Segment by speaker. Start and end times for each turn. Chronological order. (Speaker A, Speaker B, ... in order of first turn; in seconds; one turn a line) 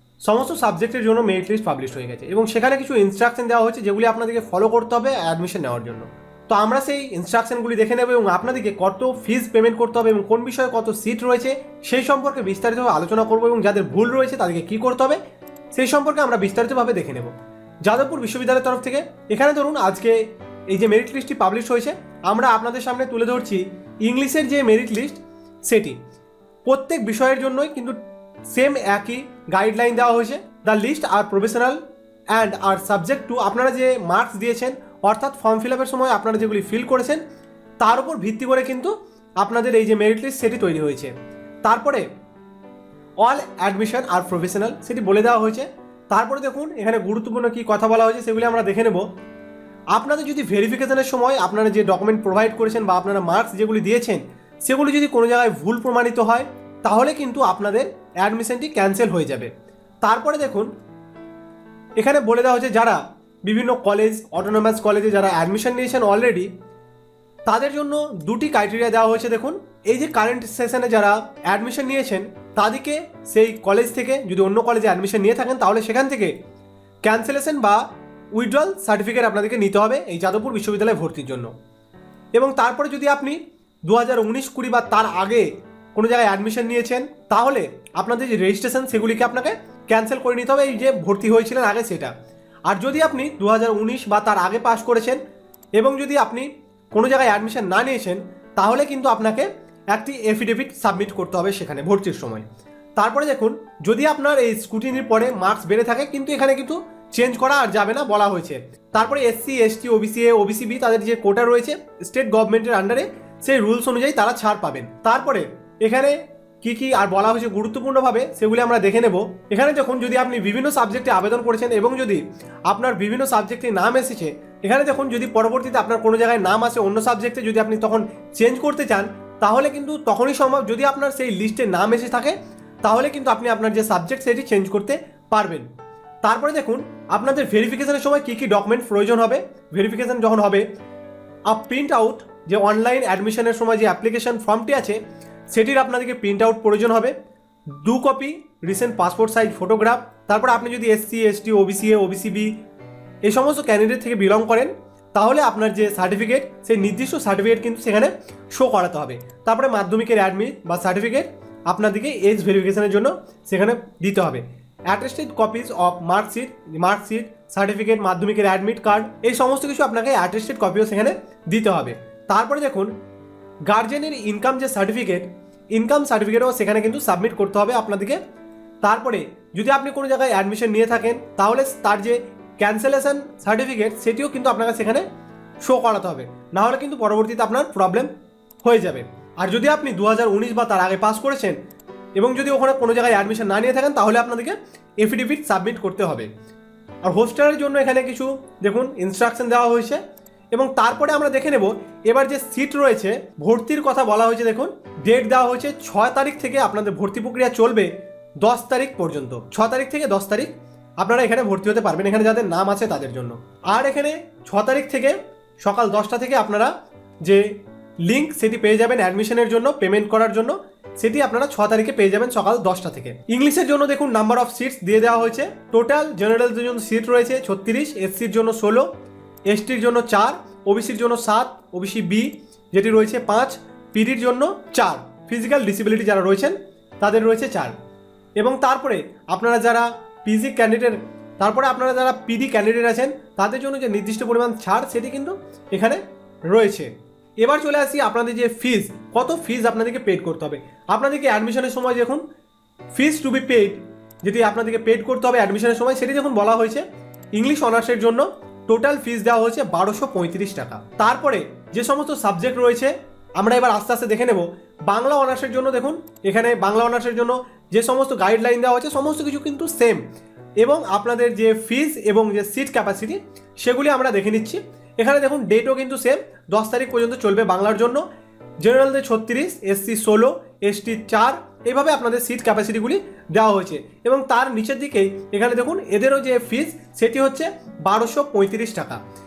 Speaker A: 0.2-15.2
Speaker A: 15.7-17.3
Speaker A: 17.8-20.2
Speaker A: 20.7-26.0
Speaker A: 26.7-27.9
Speaker A: 28.5-31.8
Speaker A: 32.3-37.2
Speaker A: 37.8-41.1
Speaker A: 41.6-42.0
Speaker A: 43.2-49.0
Speaker A: 49.9-59.5
Speaker A: 60.0-60.7
Speaker A: 62.0-66.5
Speaker A: 67.5-76.3
Speaker A: 77.0-77.8
Speaker A: 78.3-81.5
Speaker A: 82.4-92.1
Speaker A: 92.7-95.2
Speaker A: 95.8-102.4
Speaker A: 103.0-135.7
Speaker A: 136.2-140.6
Speaker A: 141.5-145.0
Speaker A: 145.5-147.1
Speaker A: 147.8-152.5
Speaker A: 153.2-172.9
Speaker A: 173.7-178.2
Speaker A: 178.8-185.0
Speaker A: 185.6-188.1
Speaker A: 188.6-191.6
Speaker A: 192.2-196.3
Speaker A: 197.0-200.0
Speaker A: 200.5-207.9
Speaker A: 208.4-217.5
Speaker A: 218.1-228.9
Speaker A: 229.5-237.7
Speaker A: 238.4-252.2
Speaker A: 252.9-256.8
Speaker A: 257.4-270.0
Speaker A: 270.6-278.0
Speaker A: 278.6-289.0